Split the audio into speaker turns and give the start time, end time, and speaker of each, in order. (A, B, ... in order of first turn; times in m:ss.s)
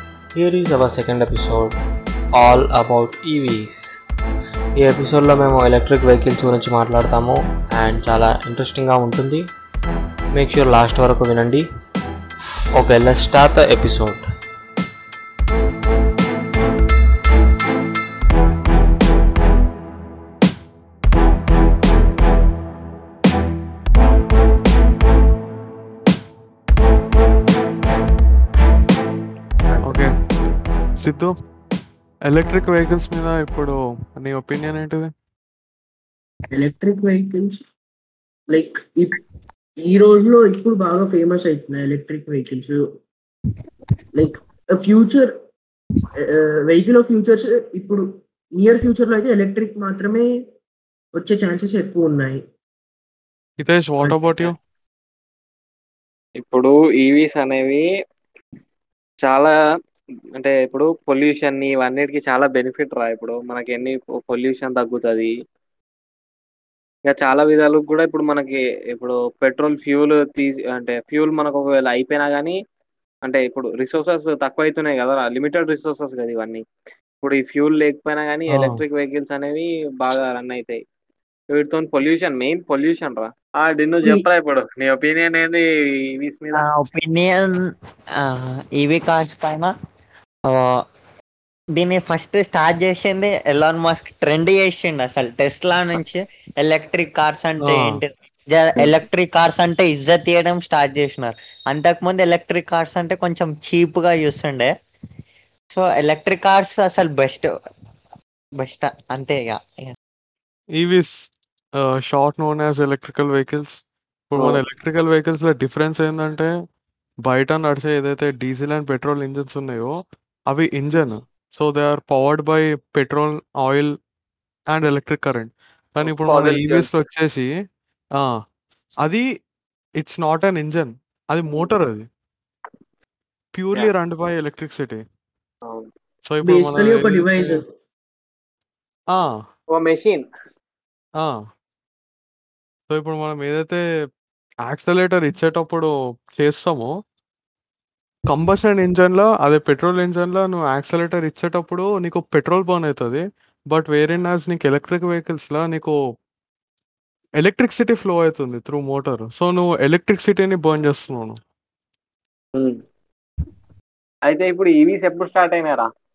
0:00.4-0:01.8 A
0:02.4-0:03.9 A
0:04.8-0:09.5 A
0:10.3-0:11.7 A
0:12.8-0:14.3 A
0:29.8-0:30.1 B
0:31.0-0:31.3 B
0:32.3-0:35.1 B
0:36.5-0:37.6 C
0:38.5-0:39.2 C
0:39.8-0:42.8 C
0:44.2-0:45.3 C
0:46.2-0:48.0 C
0:48.6-0:50.3 C
0:51.2-0:52.4 C
0:53.6-0:54.5 B
0:56.4-0:57.8 D
0:59.2-0:59.5 D
1:00.4-1:05.3 D
1:07.1-1:12.6 D
1:13.3-1:16.6 D
1:17.2-1:20.8 D
1:18.5-1:18.8 B
1:21.5-1:25.6 D
1:26.2-1:26.6 D
1:26.6-1:29.7 E
1:30.5-1:30.8 E
1:31.8-1:44.7 E
1:37.6-1:38.0 B
1:45.7-1:47.5 E
1:48.6-1:50.0 E
1:50.8-1:51.1 B
1:51.8-1:53.8 B
1:54.3-1:56.5 B
1:57.3-1:59.9 B
2:00.5-2:03.9 B
2:04.7-2:07.5 B
2:06.0-2:06.9 D
2:10.0-2:12.1 B
2:11.5-2:11.8 D
2:13.5-2:15.0 B
2:16.3-2:17.6 B
2:16.4-2:17.6 C
2:19.7-2:20.2 D
2:22.9-2:23.8 B
2:24.7-2:26.9 B
2:28.3-2:36.0 B
2:37.4-2:41.4 B
2:44.3-2:45.9 D